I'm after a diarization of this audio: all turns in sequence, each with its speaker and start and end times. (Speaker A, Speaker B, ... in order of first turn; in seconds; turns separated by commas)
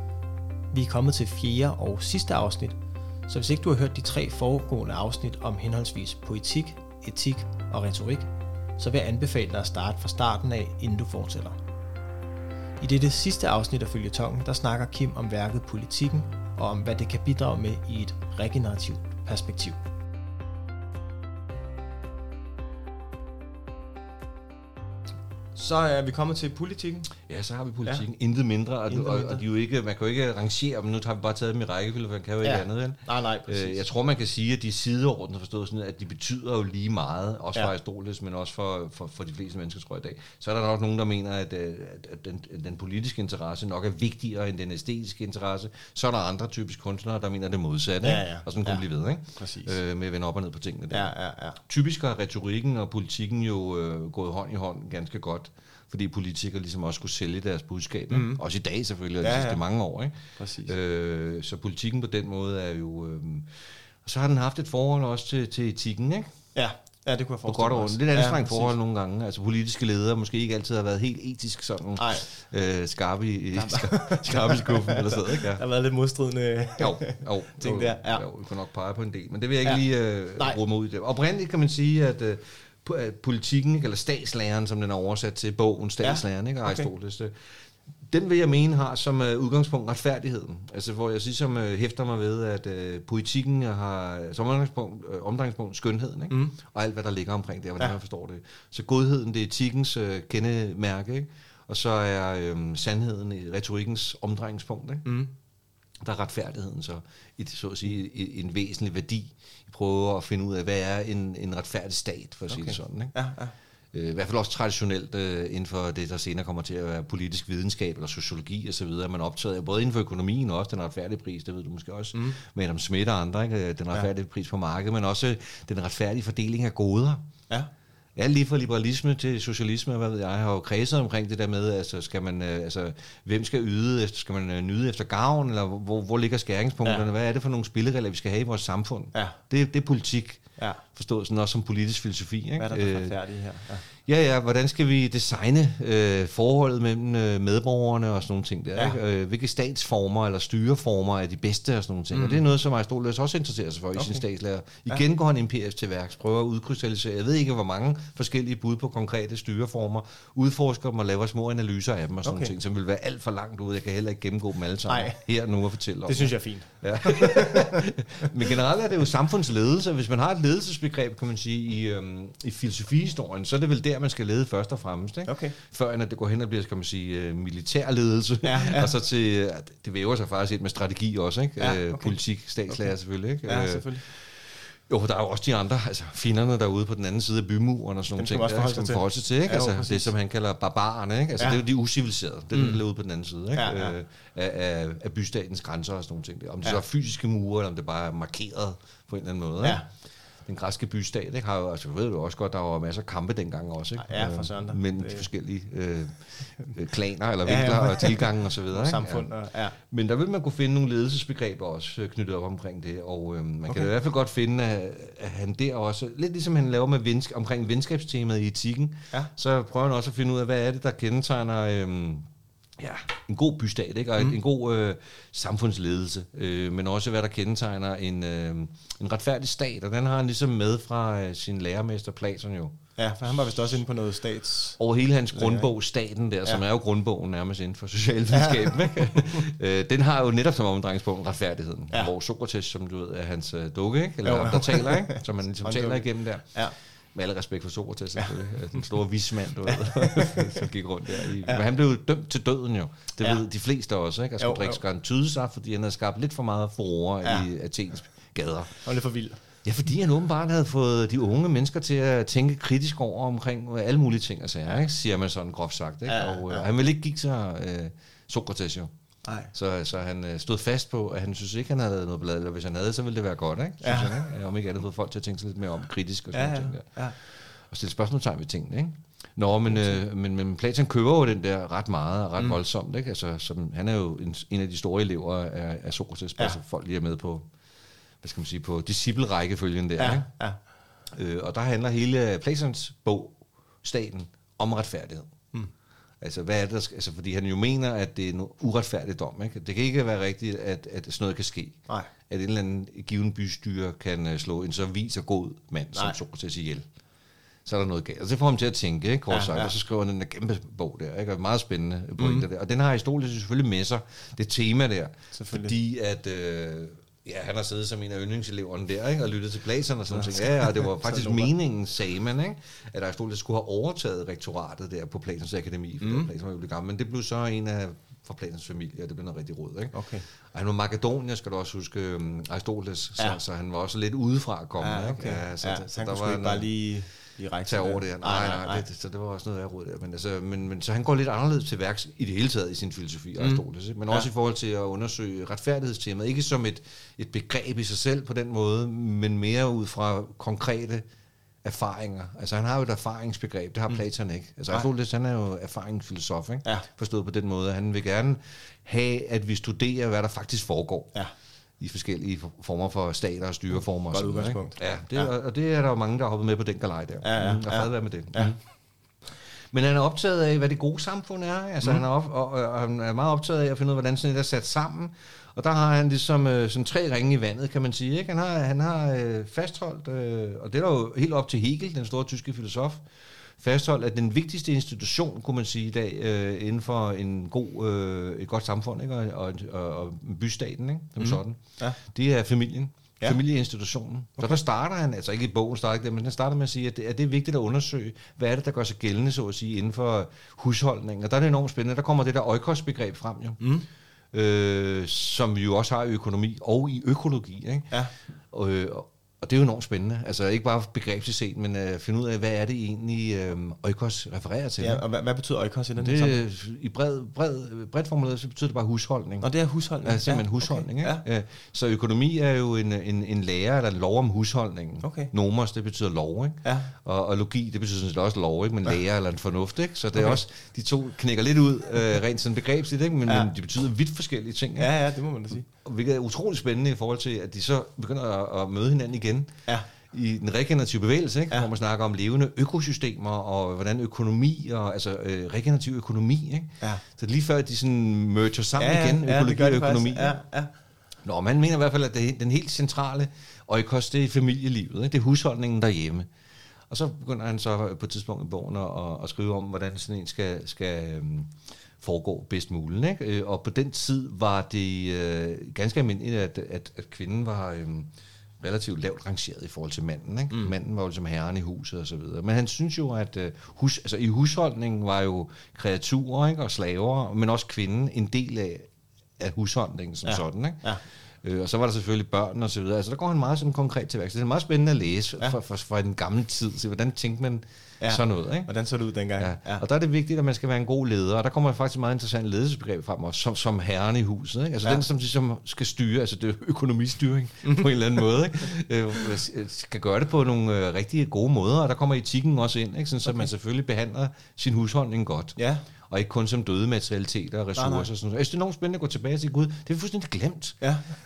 Speaker A: 0.7-11.6, Speaker A: 12.8-19.8, Speaker A: 25.5-27.1, Speaker B: 27.2-51.1, Speaker A: 28.9-29.4, Speaker A: 32.4-33.8, Speaker A: 48.0-48.8, Speaker A: 49.4-49.8, Speaker A: 50.9-51.6, Speaker B: 51.7-60.1, Speaker A: 58.1-58.4, Speaker A: 59.2-59.6, Speaker A: 60.4-60.8, Speaker B: 60.7-63.5, Speaker B: 64.0-66.3, Speaker A: 66.5-68.7, Speaker B: 67.4-75.6, Speaker A: 72.0-72.3, Speaker A: 73.5-78.2, Speaker B: 76.8-87.3, Speaker A: 86.0-86.9, Speaker B: 88.1-105.0, Speaker A: 96.3-96.6, Speaker A: 105.0-105.3, Speaker B: 106.0-113.1, Speaker A: 112.5-113.5, Speaker B: 113.9-127.2, Speaker B: 128.2-140.4, Speaker A: 139.1-139.4, Speaker B: 140.9-143.2, Speaker A: 142.6-143.9, Speaker B: 144.1-184.2, Speaker A: 152.1-152.4, Speaker A: 153.9-154.2, Speaker A: 162.2-162.5, Speaker A: 164.9-165.2, Speaker A: 166.1-167.8, Speaker A: 175.2-175.6, Speaker A: 178.4-178.9, Speaker A: 181.6-182.2, Speaker A: 182.7-182.9, Speaker A: 183.4-184.0, Speaker B: 184.9-199.8, Speaker A: 188.2-190.1, Speaker A: 191.4-191.6, Speaker A: 192.5-192.8, Speaker A: 193.5-193.9, Speaker B: 200.4-209.3, Speaker A: 204.0-205.3, Speaker A: 207.4-209.8, Speaker B: 209.8-222.2, Speaker B: 222.8-232.7, Speaker A: 233.0-234.8, Speaker B: 234.8-246.4, Speaker A: 235.3-235.7, Speaker A: 238.3-239.2, Speaker A: 244.2-246.7, Speaker B: 247.1-258.7, Speaker A: 249.7-250.6, Speaker A: 251.2-251.6, Speaker A: 254.4-254.8, Speaker A: 257.2-257.5, Speaker A: 258.8-259.4, Speaker B: 259.6-268.9, Speaker A: 266.1-266.7, Speaker A: 269.2-269.5, Speaker B: 269.5-276.8, Speaker A: 273.8-274.3, Speaker A: 276.3-277.1, Speaker B: 277.7-287.4, Speaker A: 279.7-280.0, Speaker B: 288.2-290.3, Speaker A: 290.0-290.6, Speaker B: 291.1-295.3, Speaker B: 296.2-306.8, Speaker A: 305.9-306.2, Speaker B: 307.6-329.9, Speaker A: 309.3-309.7, Speaker A: 312.2-312.5, Speaker A: 315.3-315.7, Speaker A: 320.1-321.5, Speaker A: 326.0-326.3, Speaker A: 329.9-330.2, Speaker B: 330.5-336.7, Speaker A: 334.8-338.8, Speaker B: 337.6-351.0, Speaker A: 343.4-344.3, Speaker B: 351.6-361.1, Speaker B: 361.8-368.6, Speaker A: 364.1-365.3, Speaker A: 367.2-368.6, Speaker B: 369.7-383.0, Speaker B: 383.6-403.6, Speaker A: 391.2-392.0, Speaker A: 403.6-403.9, Speaker B: 404.3-407.9, Speaker B: 408.5-415.0, Speaker A: 414.8-416.4, Speaker B: 416.0-419.5, Speaker A: 419.4-421.2, Speaker B: 420.0-434.9, Speaker A: 425.0-425.3, Speaker A: 426.6-426.9, Speaker A: 430.1-430.4, Speaker A: 434.8-435.6, Speaker B: 435.7-439.5, Speaker B: 440.1-450.4, Speaker A: 448.8-450.7, Speaker B: 451.2-456.3, Speaker B: 456.9-468.1, Speaker B: 468.6-478.9, Speaker B: 479.4-480.8, Speaker A: 480.2-481.0, Speaker B: 481.4-488.7, Speaker A: 488.0-489.8, Speaker B: 489.4-505.6, Speaker A: 497.6-497.9, Speaker A: 505.6-505.9, Speaker B: 506.1-510.8, Speaker A: 507.8-508.1